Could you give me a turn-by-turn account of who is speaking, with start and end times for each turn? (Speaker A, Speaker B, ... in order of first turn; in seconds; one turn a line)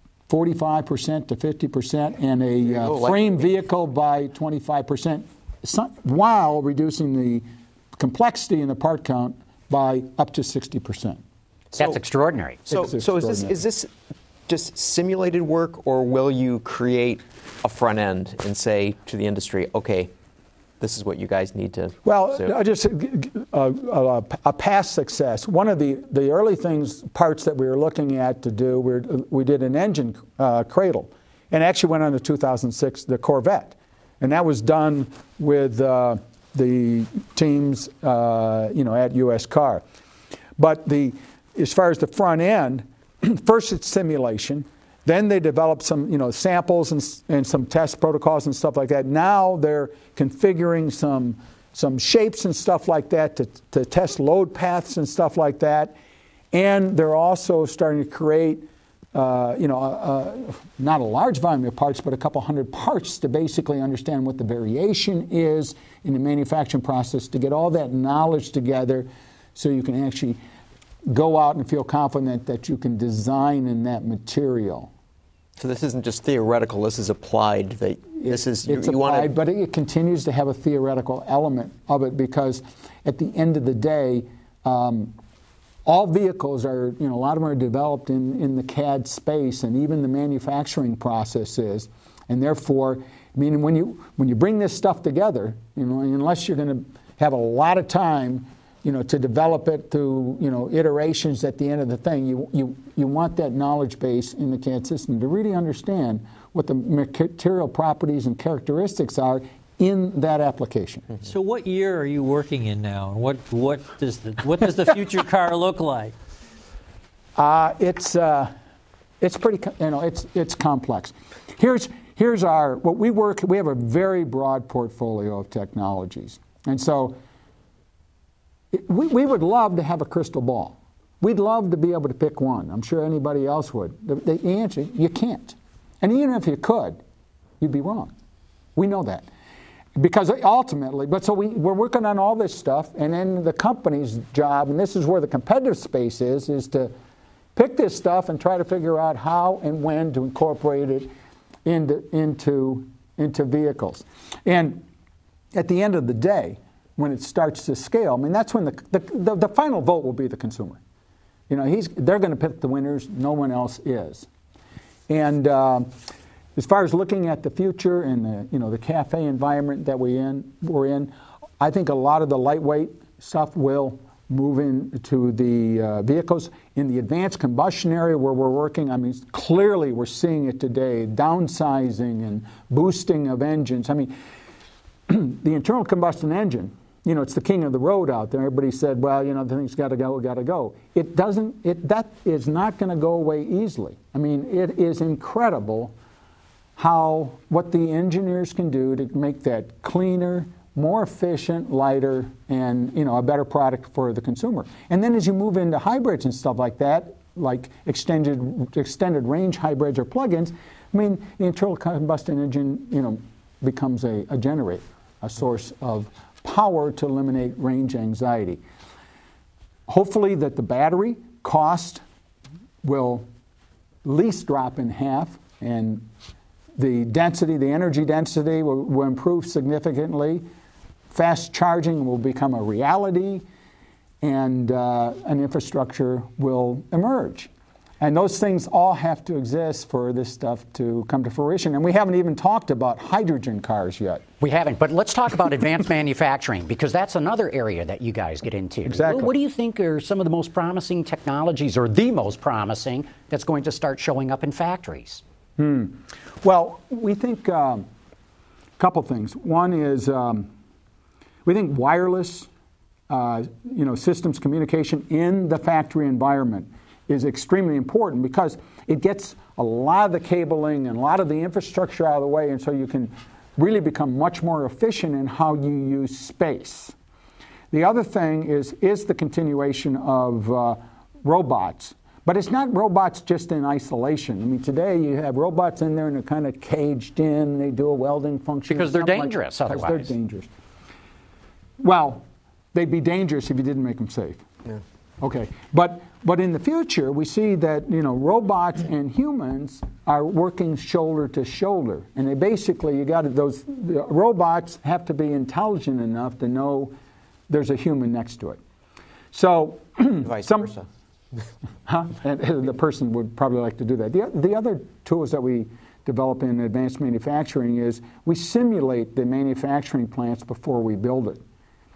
Speaker A: 0.3-11.2
Speaker B: 2.7-3.3
Speaker C: 11.8-12.7
Speaker A: 12.7-13.6
Speaker B: 12.7-13.9
Speaker B: 14.5-20.1
Speaker B: 20.8-22.5
Speaker A: 22.0-39.8
Speaker A: 40.6-55.9
Speaker A: 56.5-70.4
Speaker A: 71.1-74.9
Speaker B: 75.6-79.3
Speaker A: 78.2-85.1
Speaker A: 85.8-111.1
Speaker D: 111.2-116.1
Speaker A: 117.4-118.5
Speaker A: 119.2-127.2
Speaker A: 128.7-137.0
Speaker A: 137.6-138.1
Speaker A: 138.8-139.3
Speaker A: 139.9-146.9
Speaker A: 147.6-151.1
Speaker A: 151.6-154.8
Speaker A: 155.5-160.8
Speaker A: 161.5-164.3
Speaker A: 165.1-165.9
Speaker A: 166.6-184.1
Speaker A: 185.1-195.9
Speaker A: 196.8-218.6
Speaker A: 219.9-222.0
Speaker A: 222.8-223.3
Speaker A: 224.0-226.1
Speaker A: 226.8-230.4
Speaker A: 231.1-233.4
Speaker A: 234.2-244.2
Speaker C: 244.4-255.2
Speaker A: 248.8-249.3
Speaker A: 255.6-257.9
Speaker A: 258.8-260.5
Speaker A: 261.4-262.5
Speaker A: 263.1-276.9
Speaker A: 277.7-290.5
Speaker C: 288.7-290.1
Speaker A: 291.8-292.2
Speaker A: 292.7-294.4
Speaker A: 295.2-306.9
Speaker A: 307.5-308.6
Speaker A: 309.3-310.7
Speaker B: 310.2-310.9
Speaker A: 311.9-321.4